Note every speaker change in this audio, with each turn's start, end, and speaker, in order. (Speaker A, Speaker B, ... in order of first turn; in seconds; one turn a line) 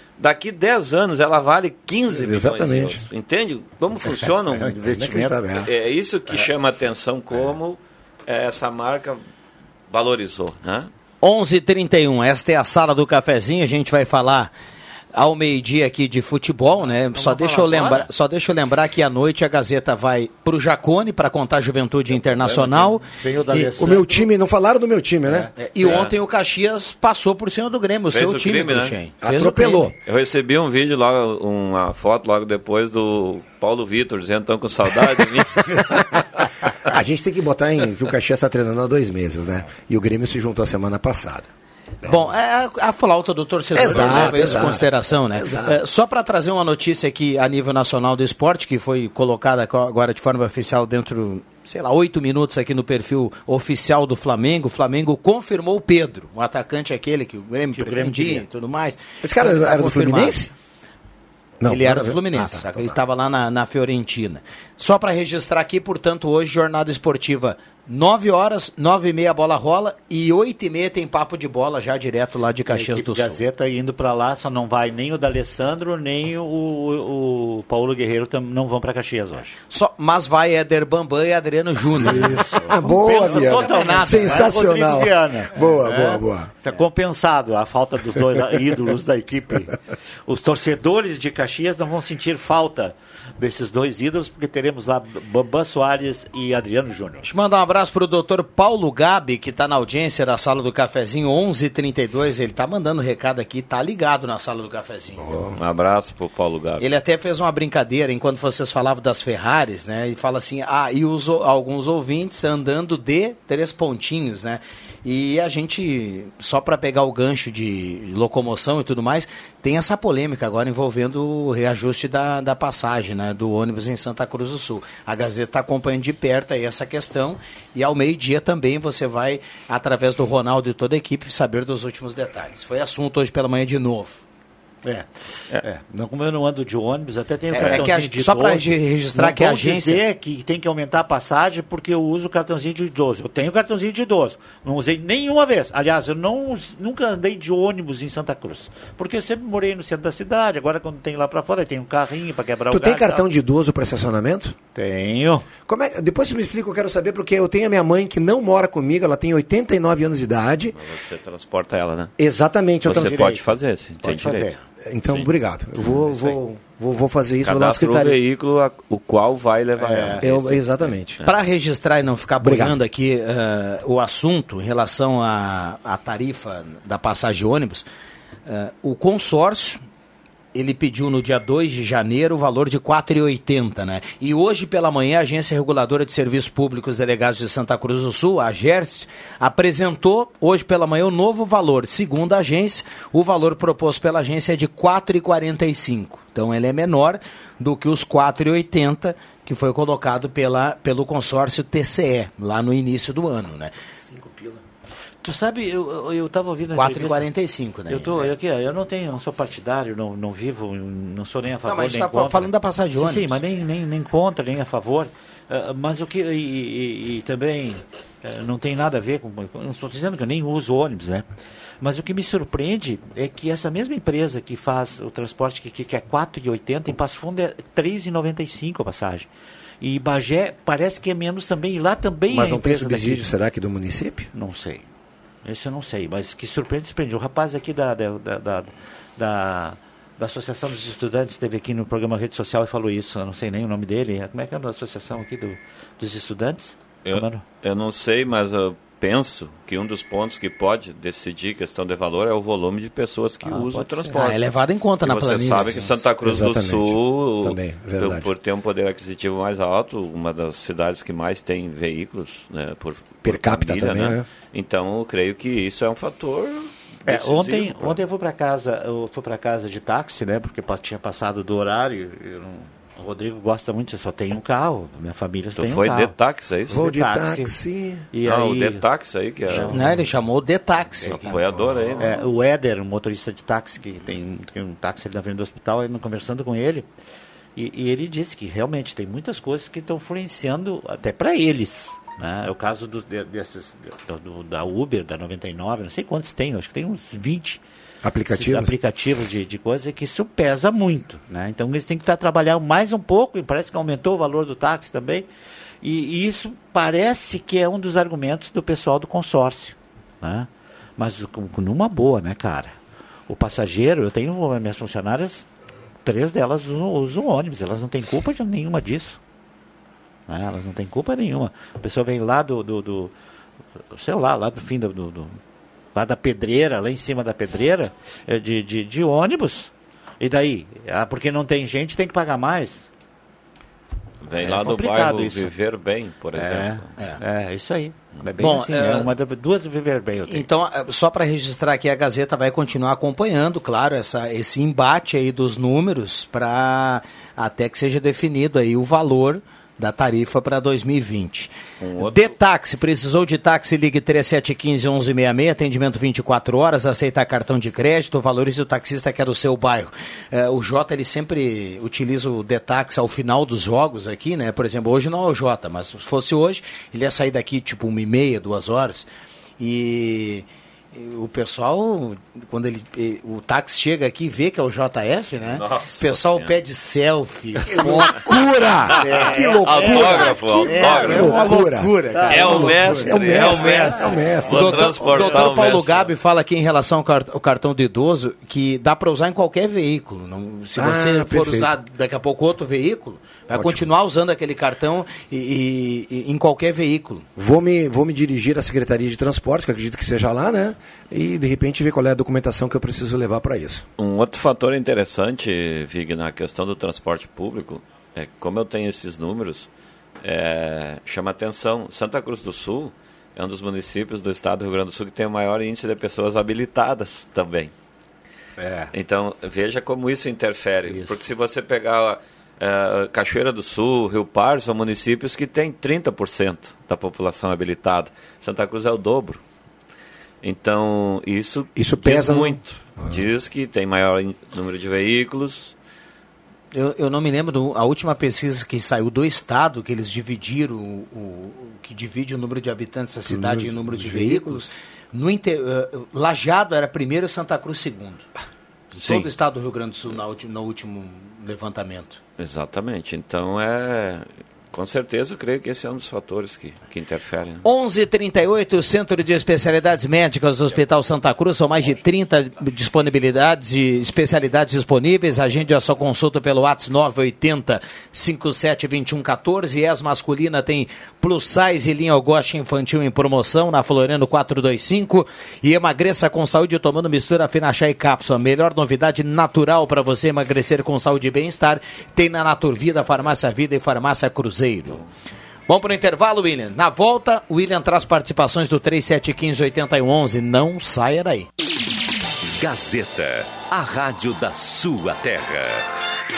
Speaker A: 0.2-4.8
Speaker B: 2.0-3.0
Speaker C: 4.0-5.5
Speaker B: 4.6-5.7
Speaker A: 5.6-9.2
Speaker A: 9.9-10.9
Speaker D: 11.2-14.5
Speaker D: 15.1-23.9
Speaker C: 17.1-18.1
Speaker C: 22.4-24.3
Speaker B: 23.8-25.5
Speaker C: 25.3-25.5
Speaker D: 25.6-29.9
Speaker A: 25.8-26.1
Speaker A: 28.1-28.9
Speaker B: 29.2-29.9
Speaker A: 30.0-36.2
Speaker B: 35.0-41.5
Speaker D: 42.0-60.4
Speaker B: 43.7-45.8
Speaker C: 57.7-58.5
Speaker B: 59.2-60.5
Speaker B: 61.6-63.0
Speaker D: 61.7-73.4
Speaker C: 72.7-79.5
Speaker D: 79.7-82.4
Speaker C: 82.0-97.3
Speaker B: 82.0-86.5
Speaker D: 83.2-84.4
Speaker D: 97.2-105.4
Speaker B: 105.2-105.6
Speaker A: 105.5-106.9
Speaker D: 106.8-134.2
Speaker C: 134.8-153.3
Speaker D: 137.5-140.0
Speaker B: 152.7-154.6
Speaker C: 154.7-155.5
Speaker B: 155.7-160.8
Speaker A: 160.7-162.1
Speaker B: 162.2-163.2
Speaker C: 162.8-164.6
Speaker A: 162.8-164.6
Speaker B: 164.9-168.2
Speaker A: 165.1-165.3
Speaker A: 167.4-171.3
Speaker C: 169.8-170.2
Speaker B: 170.2-171.2
Speaker D: 171.2-177.8
Speaker B: 172.4-172.8
Speaker D: 178.4-179.8
Speaker D: 180.5-203.7
Speaker B: 204.1-204.6
Speaker C: 205.2-207.3
Speaker D: 206.7-208.3
Speaker C: 207.9-221.2
Speaker D: 211.7-213.4
Speaker C: 221.8-229.3
Speaker C: 229.8-233.3
Speaker B: 232.3-234.3
Speaker C: 234.3-234.9
Speaker C: 235.4-247.4
Speaker A: 247.1-254.5
Speaker C: 253.4-254.2
Speaker D: 254.1-255.9
Speaker A: 255.0-268.0
Speaker B: 256.2-258.3
Speaker B: 263.2-264.3
Speaker C: 267.1-276.1
Speaker A: 275.6-276.8
Speaker C: 276.7-277.6
Speaker B: 276.7-278.1
Speaker C: 278.1-278.9
Speaker A: 278.2-279.9
Speaker C: 279.4-280.1
Speaker D: 279.7-281.4
Speaker A: 281.1-282.2
Speaker B: 281.4-282.1
Speaker C: 282.0-286.9
Speaker C: 287.6-297.6
Speaker B: 298.0-298.7
Speaker C: 298.3-305.3
Speaker C: 305.8-312.8
Speaker C: 313.3-315.4
Speaker C: 316.0-319.2
Speaker C: 320.3-323.1
Speaker C: 323.9-325.4
Speaker C: 325.9-332.9
Speaker A: 334.2-336.9
Speaker C: 334.4-335.5
Speaker C: 336.4-340.5
Speaker D: 338.4-339.1
Speaker D: 340.3-369.1
Speaker A: 351.8-352.4
Speaker D: 369.6-378.2
Speaker A: 375.4-376.6
Speaker B: 377.7-385.5
Speaker C: 377.8-378.1
Speaker C: 378.9-381.6
Speaker A: 378.9-381.5
Speaker D: 379.1-379.3
Speaker D: 379.9-382.8
Speaker C: 382.1-384.0
Speaker A: 382.3-386.1
Speaker D: 383.4-397.2
Speaker B: 390.8-391.7
Speaker B: 393.5-393.9
Speaker B: 397.4-403.9
Speaker A: 404.0-409.7
Speaker A: 410.2-417.7
Speaker C: 418.6-418.9
Speaker A: 418.9-429.4
Speaker C: 420.9-421.3
Speaker A: 430.4-435.7
Speaker B: 431.8-433.2
Speaker D: 436.7-448.3
Speaker B: 443.2-444.7
Speaker D: 448.9-452.2
Speaker A: 449.0-449.3
Speaker A: 452.4-457.6
Speaker D: 457.6-485.0
Speaker D: 485.7-491.5
Speaker E: 492.6-495.9